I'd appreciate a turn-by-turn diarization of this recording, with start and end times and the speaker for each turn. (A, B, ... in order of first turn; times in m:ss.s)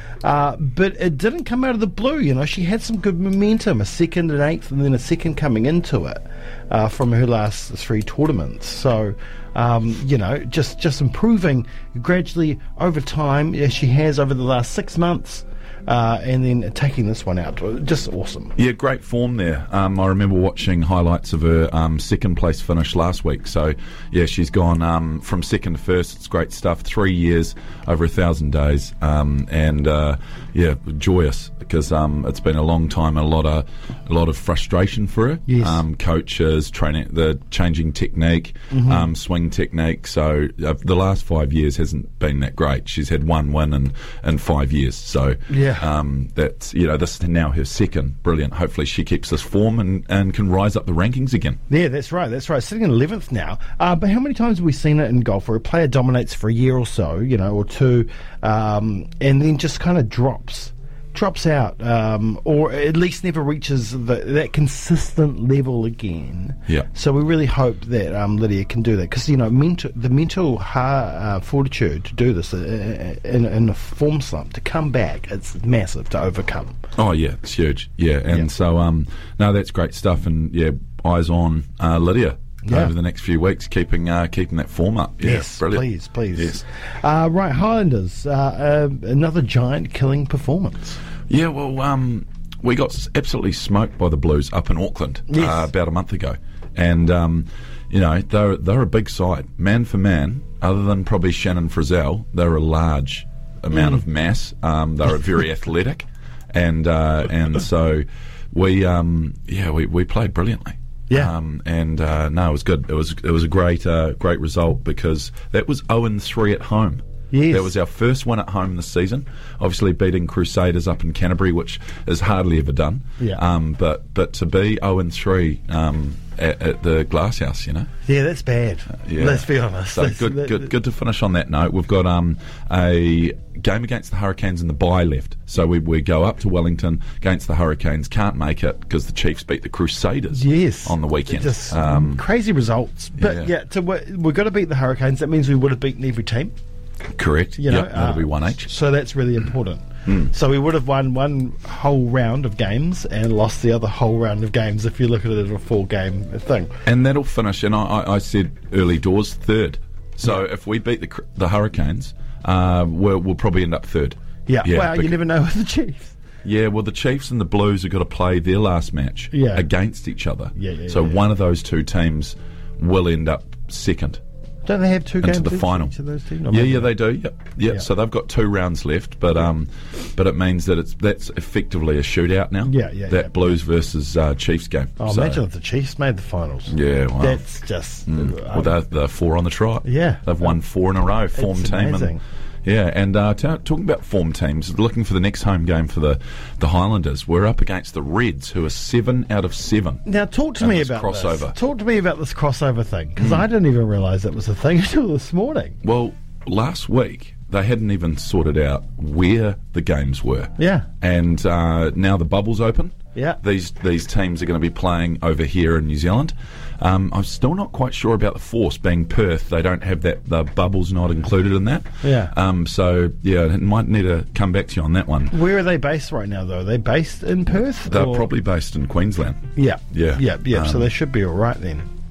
0:00.2-0:18.6 A
0:18.6-0:51.6 B
0:35.5-0:35.8 A
0:38.7-0:39.1 A
0:45.5-0:45.9 A
0:51.7-1:16.8 A
1:17.0-1:26.6 B
1:22.6-1:22.9 A
1:25.2-1:31.0 A
1:31.3-2:07.9 B
1:35.3-1:35.7 A
1:43.7-1:44.0 A
1:57.3-1:57.7 A
2:08.1-2:10.7 A
2:09.0-2:22.2 B
2:20.3-2:26.5 A
2:23.2-2:23.5 B
2:27.1-2:28.7 B
2:27.6-2:36.7 A
2:30.1-2:30.3 B
2:36.8-2:45.2 B
2:44.5-2:46.2 A
2:46.4-2:54.2 B
2:49.3-2:49.7 A
2:50.6-2:51.3 A
2:54.6-2:56.9 A
2:55.2-2:55.9 B
2:56.5-3:05.4 B
3:02.6-3:03.6 A
3:05.0-3:08.8 A
3:06.7-3:07.4 B
3:08.1-3:20.0 B
3:09.8-3:10.6 A
3:11.3-3:12.2 A
3:20.0-3:25.8 A
3:20.6-3:21.6 B
3:23.2-3:23.4 B
3:25.8-3:45.4 B
3:30.6-3:30.9 A
3:33.2-3:33.4 A
3:42.0-3:42.3 A
3:45.3-3:48.3 A
3:47.7-3:50.9 B
3:49.6-3:51.9 A